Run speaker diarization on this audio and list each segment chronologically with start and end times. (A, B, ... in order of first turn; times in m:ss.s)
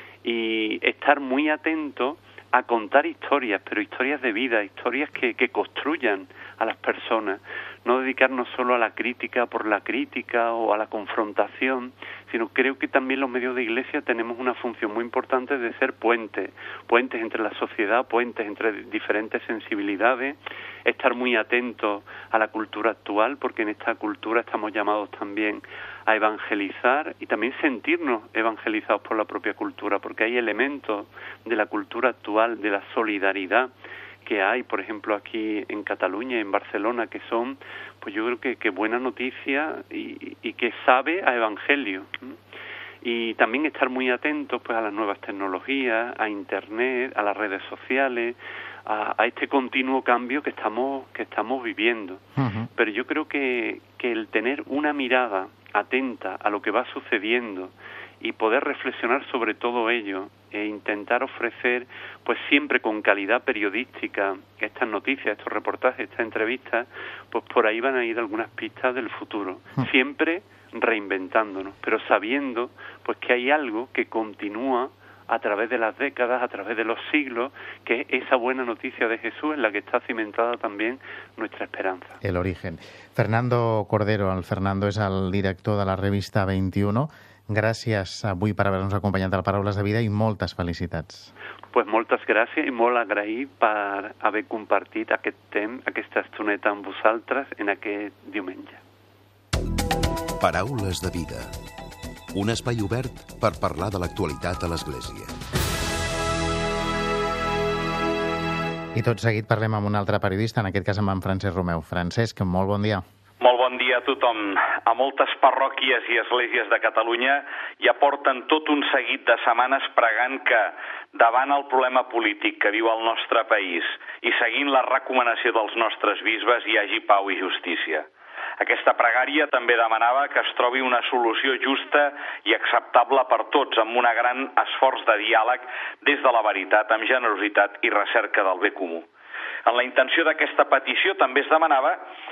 0:00.2-0:33.7 A
0:34.2-0:42.3 A
0:43.0-0:52.2 A
0:52.4-0:52.7 B
0:52.7-1:22.2 A
1:22.2-1:31.3 B
1:31.7-1:38.8 A
1:40.4-1:41.5 C
1:42.3-1:45.4 C
1:48.9-1:53.0 B
1:53.4-2:08.1 D
2:08.6-2:19.0 D
2:19.6-2:22.0 D